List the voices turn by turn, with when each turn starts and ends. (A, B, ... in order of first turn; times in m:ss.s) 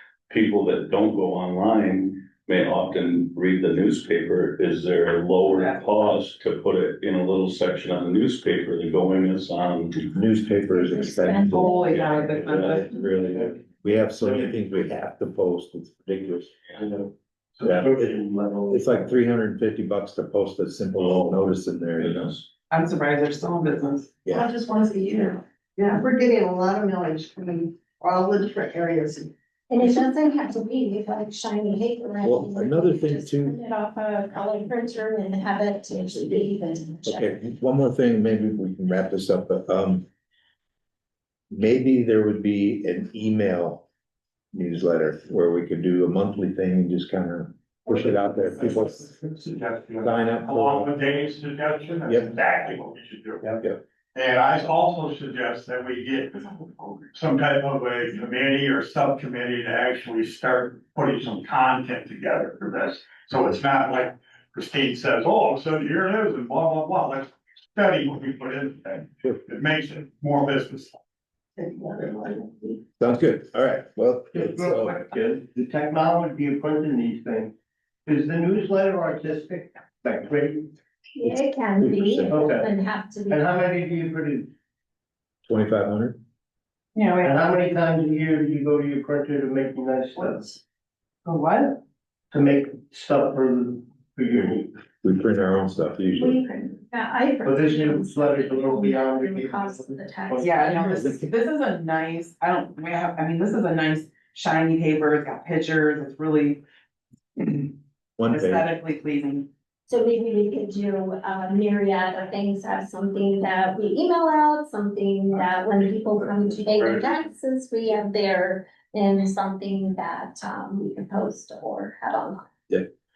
0:00.3-0:10.1 A
0:05.5-0:05.8 B
0:10.1-0:16.6 C
0:10.7-0:12.0 D
0:11.5-0:12.8 B
0:11.9-0:12.8 A
0:14.2-0:14.5 E
0:16.8-0:18.8 E
0:17.6-0:22.4 C
0:21.0-0:21.4 A
0:22.0-0:22.4 A
0:22.7-0:25.4 B
0:25.8-0:29.3 F
0:29.7-0:37.3 D
0:32.2-0:33.6 C
0:37.0-0:40.0 C
0:41.5-0:43.8 C
0:44.5-0:49.1 C
0:48.6-0:53.6 G
0:50.0-0:50.9 C
0:54.1-0:56.4 G
0:57.1-1:10.9 G
1:11.6-1:12.8 F
1:13.0-1:15.0 C
1:14.3-1:17.5 E
1:18.0-1:20.7 E
1:21.2-1:23.4 D
1:21.2-1:22.4 C
1:22.3-1:22.7 E
1:23.3-1:24.5 E
1:25.4-1:26.2 C
1:26.9-1:27.4 B
1:27.2-1:30.6 E
1:31.2-1:31.8 B
1:32.3-1:34.7 E
1:35.0-1:36.4 C
1:36.2-1:41.0 D
1:37.4-1:41.2 E
1:40.4-1:46.6 B
1:47.4-1:47.7 B
1:48.2-1:48.6 C
1:48.3-1:49.5 B
1:49.9-2:02.4 D